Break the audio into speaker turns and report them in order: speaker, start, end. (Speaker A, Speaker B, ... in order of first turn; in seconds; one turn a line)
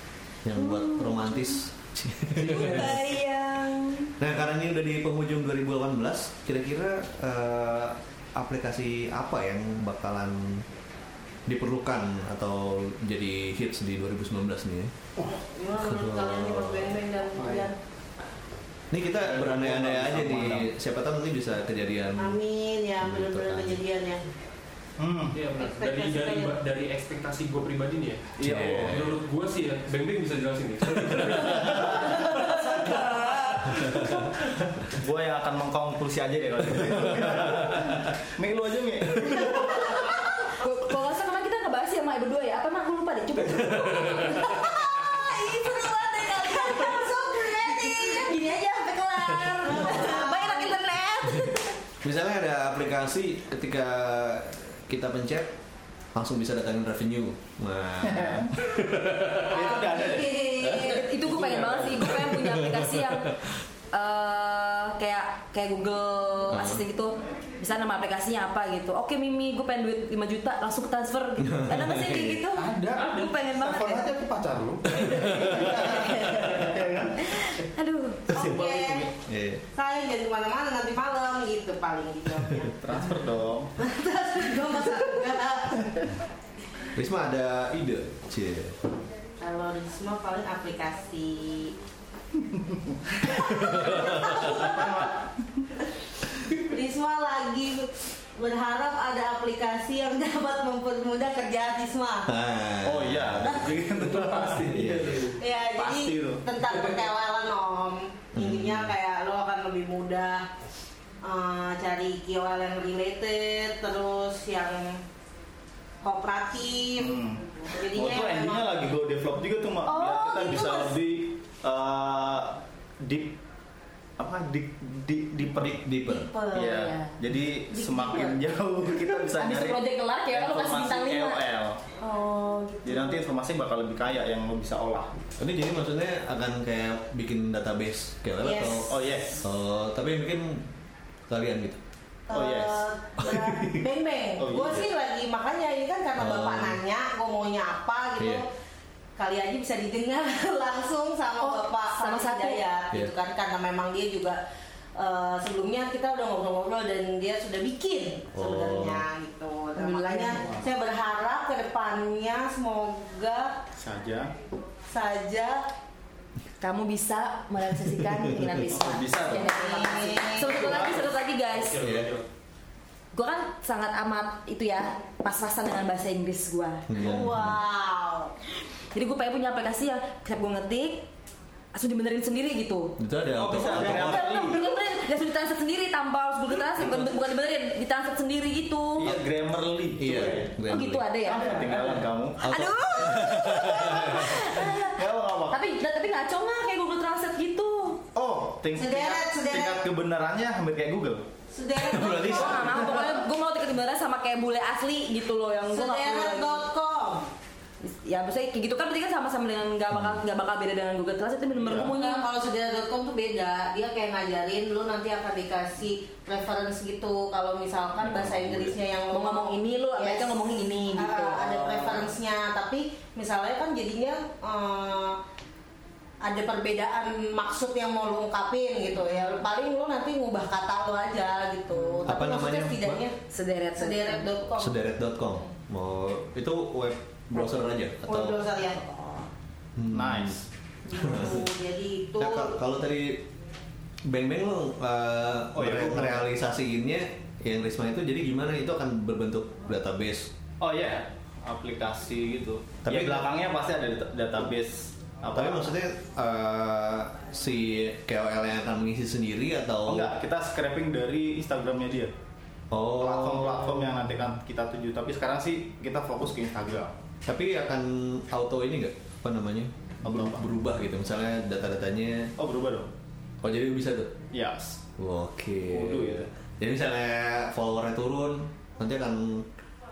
Speaker A: 0.4-3.0
Speaker B: 0.6-1.5
Speaker C: 2.4-4.1
Speaker A: 4.2-10.7
Speaker A: 11.5-14.9
Speaker C: 15.3-17.8
Speaker A: 15.8-16.9
Speaker D: 17.4-17.7
Speaker A: 18.9-22.4
Speaker D: 19.3-20.7
Speaker C: 22.2-24.2
Speaker A: 23.0-23.8
Speaker D: 25.0-25.4
Speaker E: 25.3-33.0
Speaker C: 25.6-26.5
Speaker D: 28.4-28.9
Speaker A: 28.4-29.2
Speaker D: 31.6-40.2
Speaker A: 37.0-37.8
Speaker B: 40.5-51.6
Speaker C: 44.5-48.4
Speaker C: 49.6-50.8
Speaker A: 52.0-55.5
Speaker A: 56.1-59.1
Speaker D: 58.0-58.5
Speaker D: 59.4-62.1
Speaker C: 59.5-61.1
Speaker B: 60.7-63.3
Speaker A: 62.3-63.4
Speaker B: 63.9-74.1
Speaker A: 66.5-66.8
Speaker A: 71.4-72.4
Speaker D: 72.5-77.5
Speaker A: 74.9-76.2
Speaker B: 77.2-78.3
Speaker C: 78.3-79.1
Speaker D: 78.3-79.1
Speaker A: 79.2-79.6
Speaker C: 79.8-82.8
Speaker D: 82.8-83.7
Speaker C: 83.8-85.9
Speaker A: 86.9-88.8
Speaker C: 89.4-91.7
Speaker D: 92.5-93.1
Speaker C: 93.2-95.0
Speaker A: 93.5-94.7
Speaker D: 94.4-95.2
Speaker C: 96.5-102.3
Speaker A: 102.3-103.9
Speaker D: 102.8-104.9
Speaker C: 103.4-103.8
Speaker E: 103.9-105.4
Speaker A: 104.7-105.3
Speaker C: 105.4-110.5
Speaker D: 105.7-106.4
Speaker A: 108.3-108.9
Speaker C: 111.2-115.0
Speaker C: 116.0-118.8
Speaker D: 117.0-123.4
Speaker C: 119.9-120.9
Speaker D: 124.2-125.8
Speaker A: 125.6-126.3
Speaker C: 126.1-127.1
Speaker D: 126.5-131.8
Speaker C: 127.8-128.4
Speaker B: 129.4-131.4
Speaker C: 132.0-133.0
Speaker D: 132.8-135.2
Speaker A: 135.4-140.7
Speaker C: 138.4-138.9
Speaker D: 138.9-139.4
Speaker A: 141.3-141.8
Speaker C: 142.3-148.5
Speaker D: 142.3-142.8
Speaker A: 143.2-143.8
Speaker D: 144.4-144.9
Speaker A: 146.2-146.8
Speaker A: 148.2-148.4
Speaker C: 149.2-154.4
Speaker B: 151.4-152.6
Speaker C: 155.0-163.6
Speaker A: 158.3-159.1
Speaker B: 159.8-160.5
Speaker D: 163.8-164.3
Speaker C: 164.9-165.7
Speaker B: 166.6-171.8
Speaker D: 168.7-169.5
Speaker C: 169.3-170.9
Speaker D: 170.5-171.1
Speaker E: 171.5-172.3
Speaker A: 171.8-172.1
Speaker B: 173.1-176.9
Speaker A: 176.9-177.6
Speaker C: 177.0-178.3
Speaker B: 178.9-181.1
Speaker B: 181.7-182.9
Speaker A: 183.0-184.4
Speaker D: 183.3-184.7
Speaker B: 183.8-189.1
Speaker D: 186.8-187.2
Speaker D: 189.0-190.5
Speaker A: 190.0-191.1
Speaker B: 190.7-191.7
Speaker D: 191.2-192.5
Speaker A: 192.4-194.4
Speaker B: 192.4-198.0
Speaker D: 194.5-195.6
Speaker D: 198.2-201.2
Speaker C: 198.7-199.8
Speaker C: 201.5-203.2
Speaker A: 201.8-202.7
Speaker B: 202.2-206.7
Speaker C: 205.7-207.3
Speaker B: 207.8-212.3
Speaker A: 209.9-210.2
Speaker D: 211.6-211.9
Speaker C: 211.7-220.3
Speaker D: 218.1-218.6
Speaker B: 219.1-222.0
Speaker C: 220.9-225.2
Speaker C: 226.2-233.2
Speaker A: 232.1-233.1
Speaker B: 233.3-234.3
Speaker C: 233.8-234.8
Speaker A: 234.6-238.4
Speaker C: 237.4-239.3
Speaker A: 239.8-240.4
Speaker D: 239.9-240.5
Speaker C: 240.9-242.6
Speaker A: 240.9-241.5
Speaker A: 242.2-243.3
Speaker A: 244.1-250.3
Speaker D: 245.6-246.3
Speaker D: 250.6-255.7
Speaker A: 252.8-253.2
Speaker A: 255.3-260.1
Speaker D: 259.9-262.1
Speaker A: 262.7-263.9
Speaker D: 263.0-266.9
Speaker A: 267.2-272.3
Speaker D: 270.0-270.4
Speaker D: 272.4-272.9
Speaker A: 273.4-274.2
Speaker D: 274.3-274.8
Speaker A: 275.0-279.5
Speaker D: 275.7-276.3